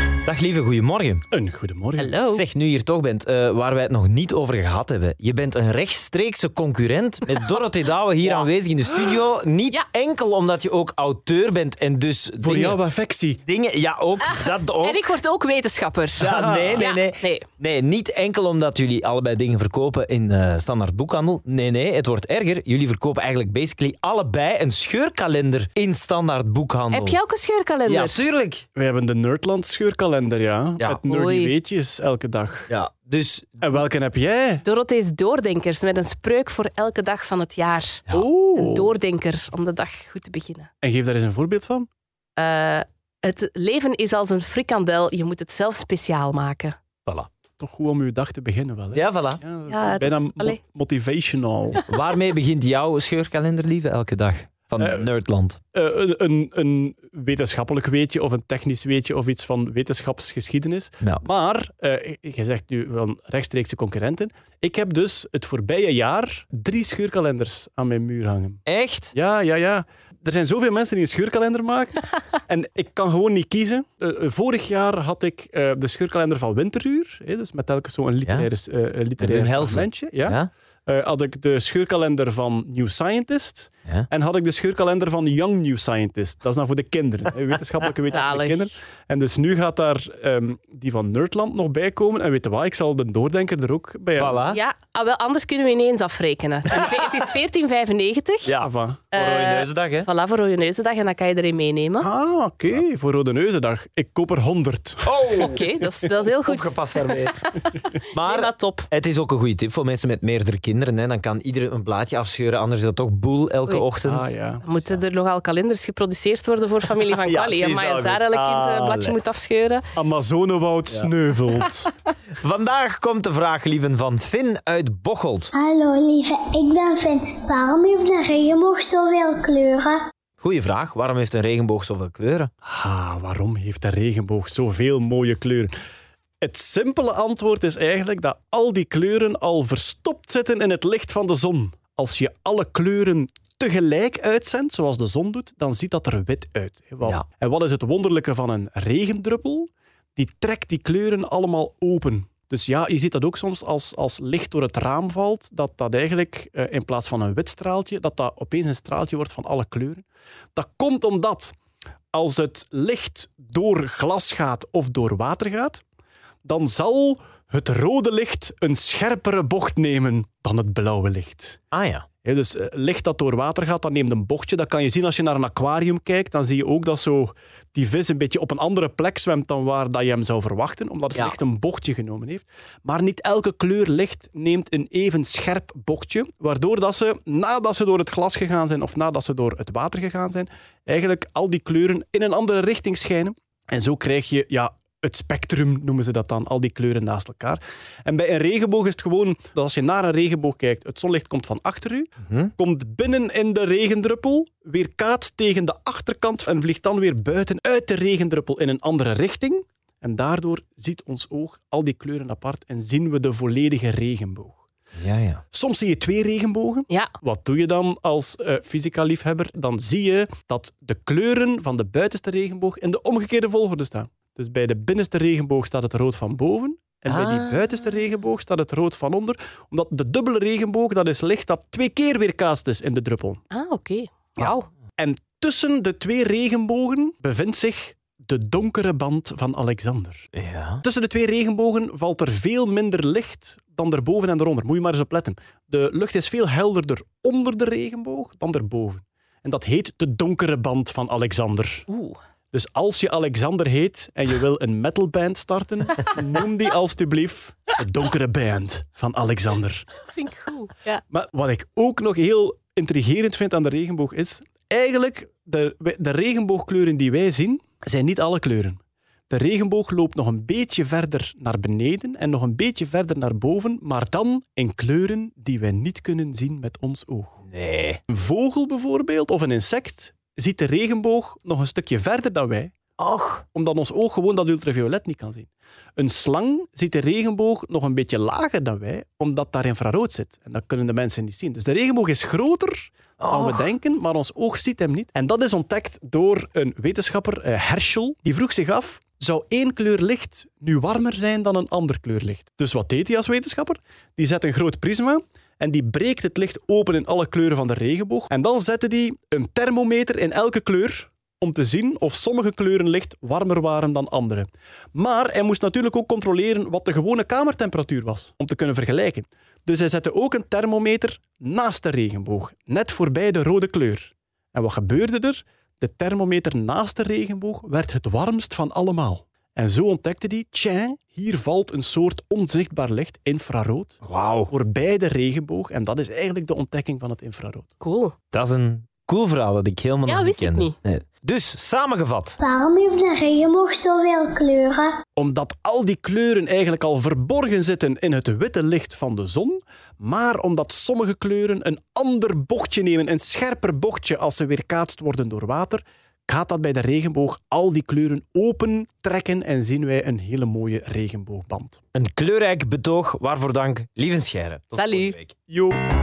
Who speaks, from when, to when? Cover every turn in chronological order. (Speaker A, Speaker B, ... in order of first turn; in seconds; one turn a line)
Speaker A: 0.2-1.2
Speaker B: 1.3-2.1
Speaker C: 2.0-2.5
Speaker A: 2.3-12.8
Speaker B: 12.4-13.4
Speaker A: 13.5-15.1
Speaker C: 14.2-17.4
Speaker A: 16.2-27.2
Speaker B: 16.2-16.9
Speaker C: 26.9-28.2
Speaker A: 27.9-28.6
Speaker B: 28.8-32.7
Speaker C: 31.1-31.5
Speaker A: 32.7-33.8
Speaker B: 33.6-34.6
Speaker C: 34.6-40.7
Speaker B: 38.1-38.9
Speaker B: 40.8-41.9
Speaker C: 42.4-46.8
Speaker B: 47.6-51.8
Speaker A: 48.9-49.4
Speaker C: 49.7-50.6
Speaker A: 51.9-55.6
Speaker B: 54.8-55.1
Speaker B: 55.7-68.6
Speaker A: 68.7-69.1
Speaker B: 69.1-94.4
Speaker A: 79.2-80.5
Speaker C: 88.1-88.7
Speaker A: 94.2-94.6
Speaker C: 94.5-98.6
Speaker B: 98.5-99.1
Speaker A: 98.5-100.1
Speaker C: 99.1-102.1
Speaker B: 102.0-105.6
Speaker A: 105.0-105.7
Speaker C: 105.4-108.9
Speaker A: 106.5-107.5
Speaker A: 108.1-114.3
Speaker B: 114.0-114.6
Speaker C: 114.6-119.9
Speaker A: 117.2-119.2
Speaker B: 120.0-121.9
Speaker A: 122.4-125.5
Speaker D: 125.5-130.0
Speaker A: 130.4-132.5
Speaker B: 132.7-135.7
Speaker B: 136.4-161.6
Speaker B: 162.1-165.8
Speaker B: 166.4-171.6
Speaker A: 171.7-172.1
Speaker B: 172.2-214.6
Speaker A: 215.0-215.4
Speaker B: 215.5-233.4
Speaker A: 227.1-227.6
Speaker C: 233.5-234.7
Speaker B: 234.4-240.3
Speaker A: 240.3-240.8
Speaker B: 240.8-251.9
Speaker C: 251.9-252.2
Speaker B: 252.5-259.9
Speaker C: 260.1-261.0
Speaker B: 261.1-277.4
Speaker A: 277.5-278.0
Speaker B: 278.1-282.8
Speaker A: 283.0-283.4
Speaker B: 283.5-337.7
Speaker A: 293.2-293.7
Speaker A: 334.0-334.5
Speaker C: 337.8-338.1
Speaker A: 338.3-342.4
Speaker C: 340.1-340.8
Speaker D: 342.4-345.0
Speaker B: 345.2-361.8
Speaker A: 361.9-365.4
Speaker C: 364.8-365.2
Speaker B: 365.5-365.8